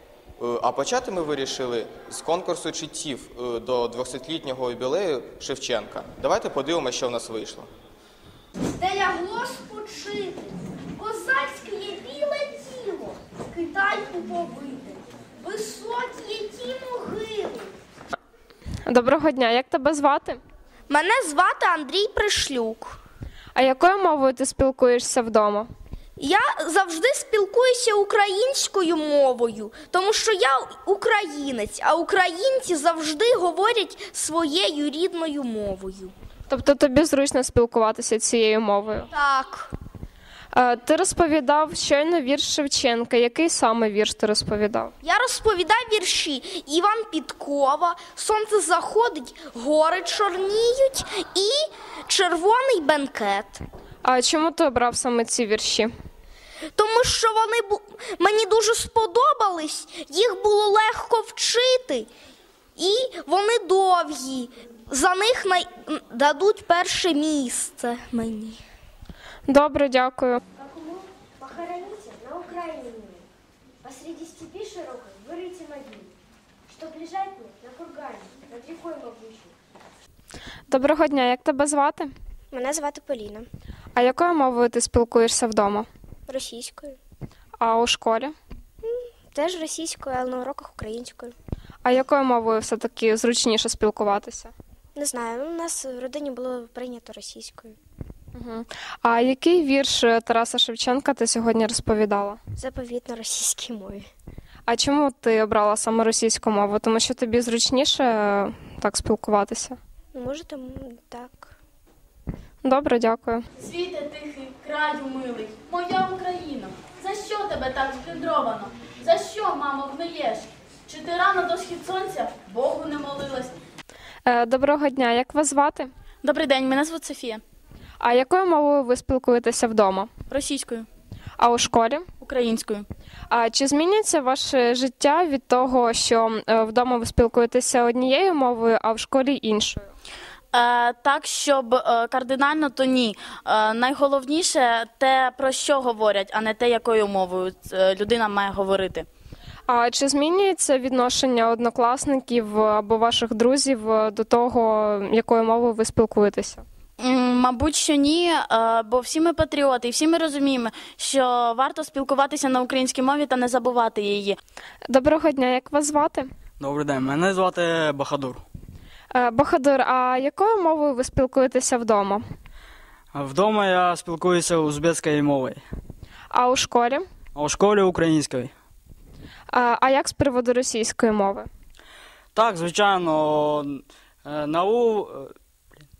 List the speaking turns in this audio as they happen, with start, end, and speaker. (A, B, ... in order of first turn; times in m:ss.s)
0:00.4-0:07.7 A
0:08.7-0:17.7 B
0:18.8-0:20.4 C
0:20.9-0:23.0 B
0:23.5-0:25.7 C
0:26.2-0:36.1 B
0:36.5-0:39.1 C
0:39.1-0:39.7 B
0:40.5-0:44.9 C
0:45.0-0:53.6 B
0:54.0-0:55.9 C
0:56.8-1:02.1 B
1:02.8-1:08.6 B
1:09.5-1:10.4 C
1:11.5-1:13.0 D
1:13.8-1:15.8 D
1:16.8-1:17.9 D
1:20.7-1:22.1 C
1:22.5-1:23.4 D
1:24.0-1:25.9 C
1:26.3-1:26.8 D
1:27.6-1:28.3 C
1:29.4-1:31.2 D
1:31.8-1:34.5 C
1:35.1-1:37.6 D
1:38.3-1:42.4 C
1:42.6-1:44.0 D
1:44.7-1:49.8 C
1:50.2-1:51.3 D
1:52.6-1:53.4 C
1:53.6-2:03.5 E
2:04.2-2:05.9 C
2:06.2-2:07.4 E
2:08.0-2:10.1 C
2:10.3-2:10.9 E
2:11.4-2:12.0 C
2:12.2-2:12.8 E
2:13.3-2:19.9 C
2:20.5-2:29.1 E
2:29.7-2:36.6 C
2:37.0-2:44.4 E
2:44.9-2:46.3 C
2:46.6-2:48.4 F
2:49.1-2:52.2 C
2:53.1-2:55.6 F
2:56.3-2:57.0 C
2:57.3-2:58.5 F
2:59.5-3:01.5 C
3:02.3-3:05.3 F